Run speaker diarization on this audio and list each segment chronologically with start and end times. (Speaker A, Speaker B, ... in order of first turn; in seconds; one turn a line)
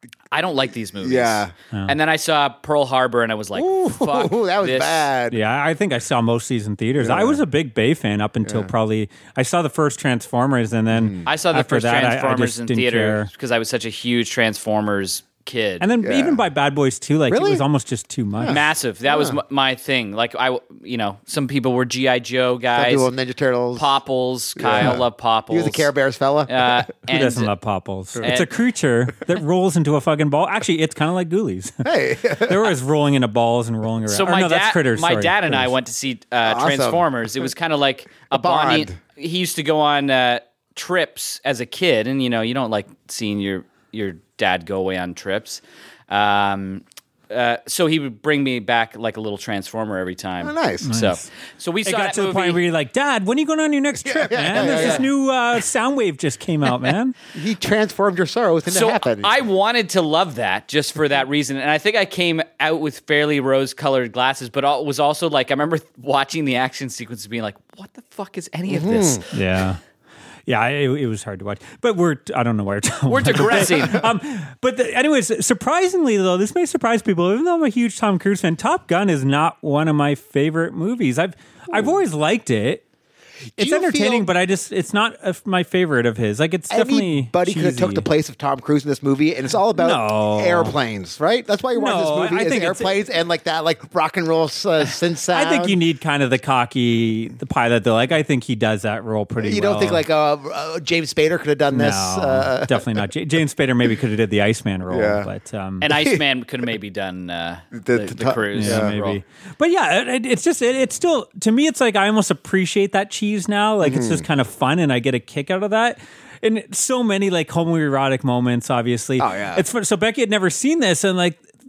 Speaker A: 0.3-5.1
Speaker B: 1.0-1.5
Speaker B: 3.5-5.4
Speaker C: 5.3-13.3
Speaker B: 7.0-7.4
Speaker B: 8.4-8.7
Speaker B: 10.9-11.2
Speaker A: 11.2-15.8
Speaker C: 15.8-18.7
Speaker B: 16.0-16.4
Speaker B: 17.3-17.6
Speaker B: 18.4-19.4
Speaker A: 18.5-23.1
Speaker B: 22.7-23.9
Speaker A: 23.7-25.9
Speaker B: 24.6-26.8
Speaker A: 26.5-27.5
Speaker C: 27.1-35.7
Speaker A: 28.2-28.5
Speaker B: 31.8-32.6
Speaker A: 34.1-52.6
Speaker B: 36.4-37.1
Speaker B: 38.3-39.0
Speaker B: 50.4-50.9
Speaker C: 50.8-51.3
Speaker C: 51.8-57.1
Speaker B: 54.0-55.1
Speaker A: 54.5-55.0
Speaker B: 57.3-59.3
Speaker A: 58.7-69.2
Speaker B: 68.7-69.2
Speaker C: 69.3-69.8
Speaker C: 70.5-82.8
Speaker A: 73.1-74.0
Speaker B: 83.6-84.3
Speaker C: 83.6-88.0
Speaker B: 86.7-95.8
Speaker C: 89.7-90.8
Speaker C: 91.7-93.0
Speaker C: 95.3-100.0
Speaker B: 99.4-103.0
Speaker C: 101.7-105.8
Speaker B: 104.9-105.3
Speaker A: 105.8-109.2
Speaker B: 105.9-106.2
Speaker B: 107.7-108.9
Speaker C: 108.5-121.4
Speaker B: 113.8-114.2
Speaker B: 119.2-119.6